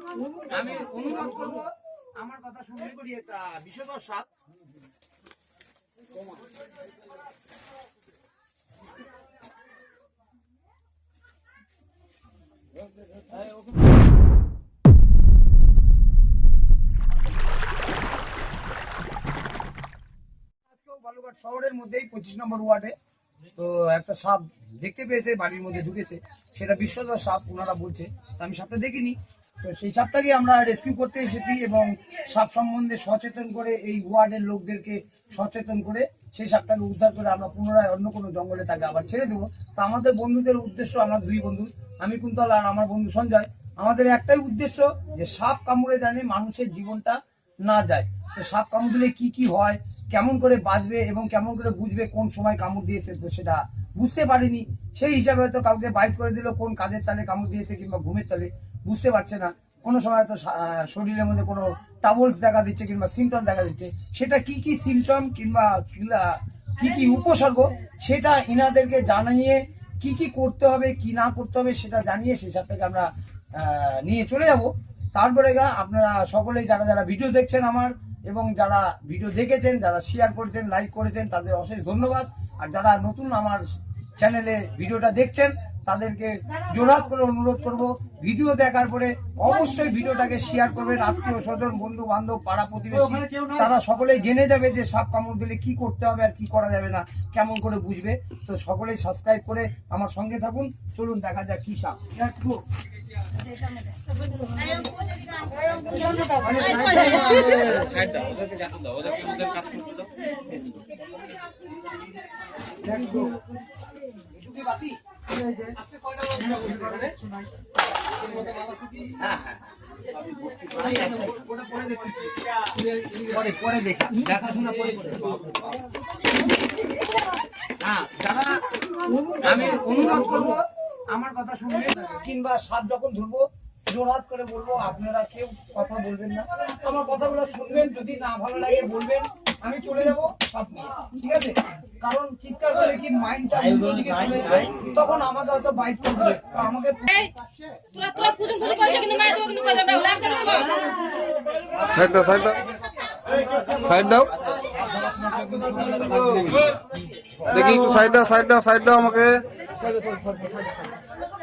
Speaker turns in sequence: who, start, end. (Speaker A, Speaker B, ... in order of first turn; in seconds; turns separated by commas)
Speaker A: 0.5-4.3, Speaker A: 20.7-22.9, Speaker A: 23.6-83.6, Speaker A: 84.2-102.6, Speaker A: 105.9-108.5, Speaker B: 107.8-110.1, Speaker A: 112.9-113.3, Speaker A: 114.3-115.0, Speaker A: 119.2-119.6, Speaker A: 120.7-122.1, Speaker A: 123.1-125.6, Speaker A: 127.8-128.6, Speaker A: 129.4-147.4, Speaker B: 148.2-150.4, Speaker C: 148.9-149.6, Speaker C: 150.4-150.7, Speaker C: 152.0-152.6, Speaker C: 153.8-154.3, Speaker A: 155.9-156.5, Speaker C: 157.5-159.4